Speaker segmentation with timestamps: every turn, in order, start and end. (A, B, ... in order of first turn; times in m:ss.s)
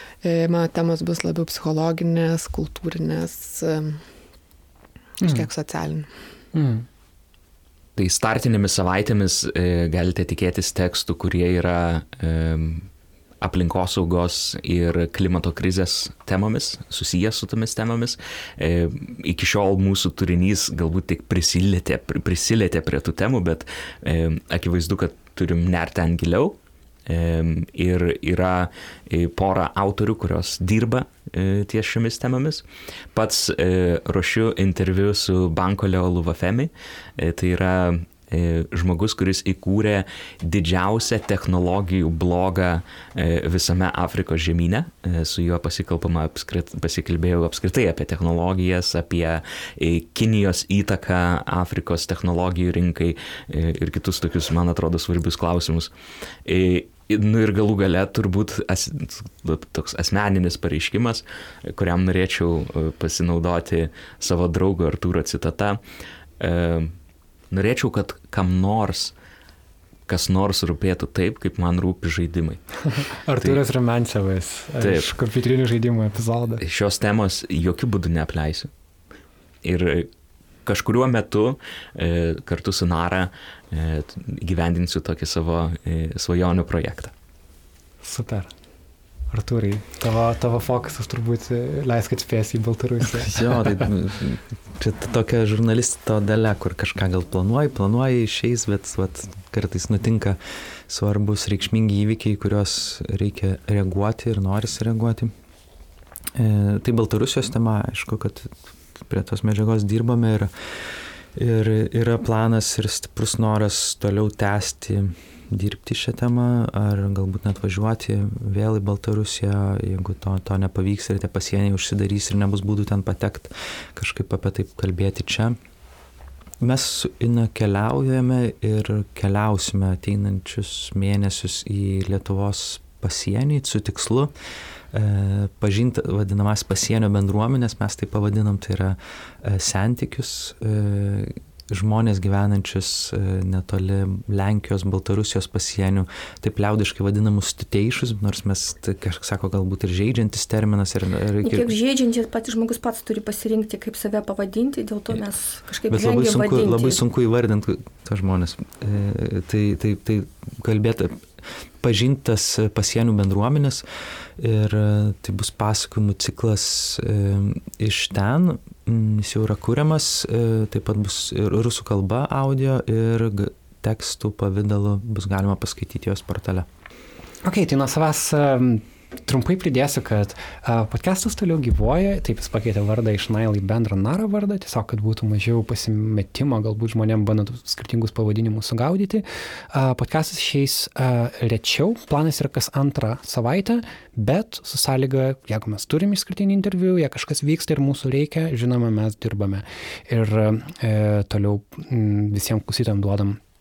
0:00.2-0:04.0 A
0:05.2-0:06.1 A
0:05.2-0:05.5 B
0:06.5-0:06.8 B
0:08.0-0:12.9 C
0:13.4-0:55.9 C
0:56.4-1:05.8 C
1:06.4-1:06.9 C
1:07.5-1:09.1 C
1:10.1-1:12.8 C
1:12.9-1:16.6 B
1:14.8-1:15.1 C
1:16.6-1:18.7 C
1:19.6-1:20.1 C
1:20.6-1:27.1 C
1:28.0-1:28.5 B
1:29.3-1:33.8 B
1:33.2-1:45.3 D
1:46.3-1:50.5 D
1:51.3-2:05.6 D
2:06.6-2:14.3 D
2:14.9-2:31.7 D
2:31.4-2:37.0 E
2:35.9-2:41.2 D
2:41.8-2:43.8 D
2:44.4-2:56.7 D
2:57.4-3:23.4 B